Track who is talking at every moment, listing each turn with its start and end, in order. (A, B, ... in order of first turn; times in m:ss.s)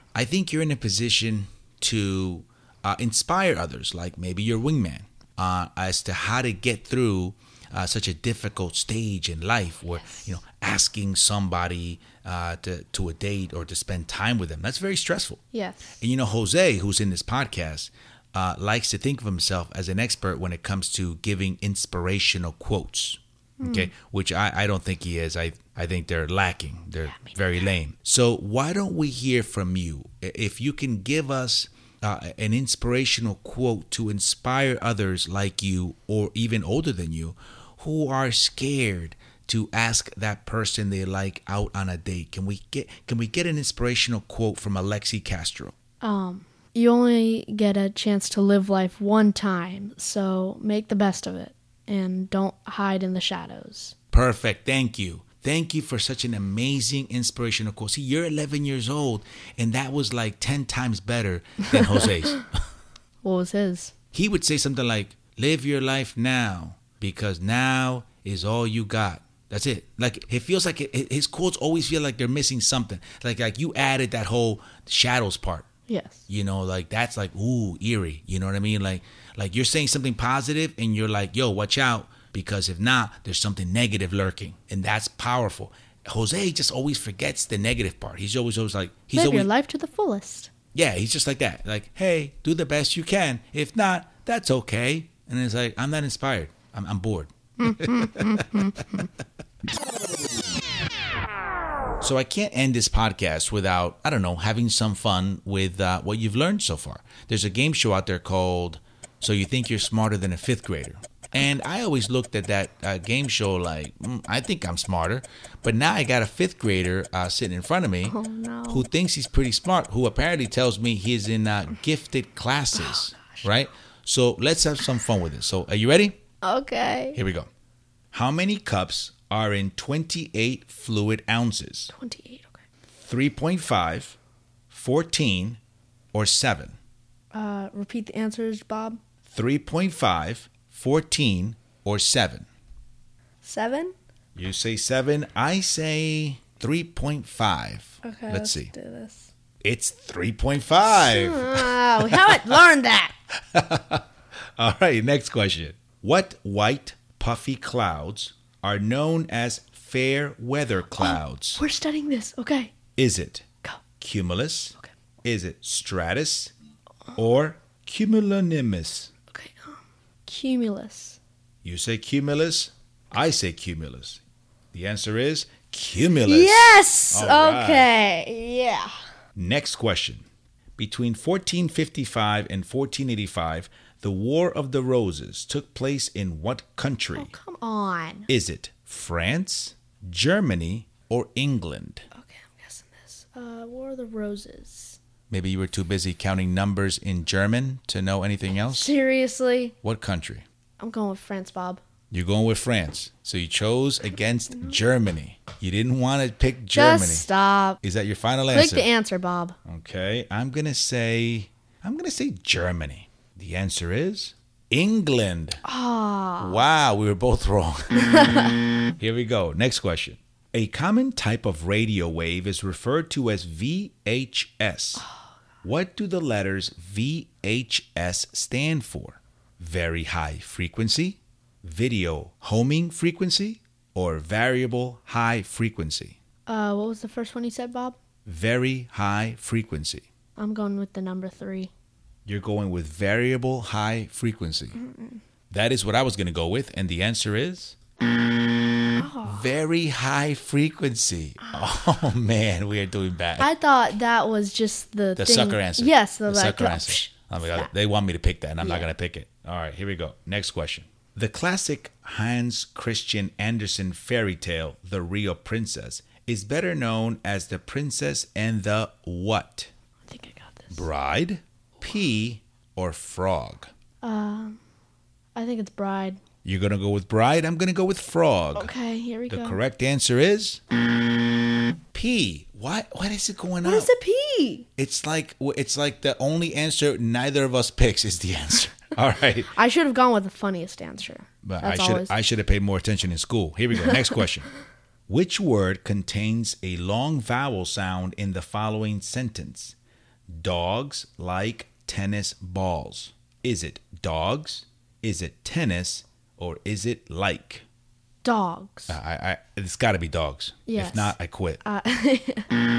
0:00.1-0:15.4 A
0:15.5-0:16.0 B
0:16.0-0:45.7 A
0:23.6-0:23.9 B
0:46.0-0:53.9 B
0:54.1-1:02.5 A
1:01.7-1:02.0 B
1:03.2-1:03.9 B
1:04.1-1:15.7 A
1:15.9-1:16.3 B
1:16.3-1:29.5 A
1:29.1-1:30.5 B
1:30.7-1:39.1 A
1:37.6-1:39.0 B
1:42.0-1:58.2 A
1:58.1-1:58.9 B
1:58.7-2:06.2 A
2:06.4-2:07.2 B
2:07.1-2:07.5 A
2:08.1-2:11.9 A
2:11.9-2:12.6 B
2:13.0-2:14.2 A
2:14.7-2:15.6 A
2:16.1-2:16.8 A
2:17.3-2:19.0 B
2:19.3-2:22.4 A
2:23.4-2:23.9 B
2:24.4-2:28.7 A
2:28.0-2:29.3 B
2:29.6-2:32.6 A
2:30.8-2:33.1 B
2:33.5-2:34.0 A
2:34.6-2:41.6 A
2:41.0-2:42.7 B
2:43.0-2:43.4 A
2:44.0-2:46.5 A
2:47.1-2:49.1 A
2:49.3-2:51.2 B
2:51.6-2:54.2 A
2:54.7-2:57.9 A
2:56.2-2:59.0 B
2:59.3-3:00.2 A
3:00.8-3:07.3 A
3:07.1-3:08.3 B
3:08.3-3:12.0 A
3:12.1-3:15.0 B
3:15.3-3:18.9 A
3:18.7-3:19.7 B
3:19.8-3:20.4 A
3:20.8-3:21.8 B
3:22.1-3:27.2 A
3:26.7-3:27.8 B
3:27.8-3:28.9 A
3:28.5-3:29.6 B
3:29.6-3:35.6 A
3:35.6-3:36.6 B
3:36.4-3:38.3 A
3:38.0-3:38.5 B
3:39.0-3:45.0 A
3:45.6-3:56.2 A
3:56.5-3:58.0 B
3:58.2-4:00.0 A
4:00.4-4:01.7 B
4:02.2-4:04.8 A
4:04.8-4:05.2 B
4:05.5-4:07.8 A
4:08.9-4:09.5 B
4:09.2-4:13.5 A
4:13.4-4:17.7 B
4:15.2-4:29.7 A
4:18.6-4:18.9 B
4:30.0-4:30.8 B
4:30.7-4:33.7 A
4:34.0-4:34.6 B
4:35.3-4:36.2 B
4:36.4-4:38.7 A
4:38.5-4:39.6 B
4:39.3-4:40.6 A
4:41.9-4:43.9 A
4:43.6-4:44.7 B
4:44.8-4:49.5 A
4:49.5-4:52.1 B
4:51.4-4:54.5 A
4:55.1-4:59.7 A
5:00.3-5:07.6 A
5:08.2-5:09.0 B
5:08.9-5:11.6 A
5:10.7-5:12.5 B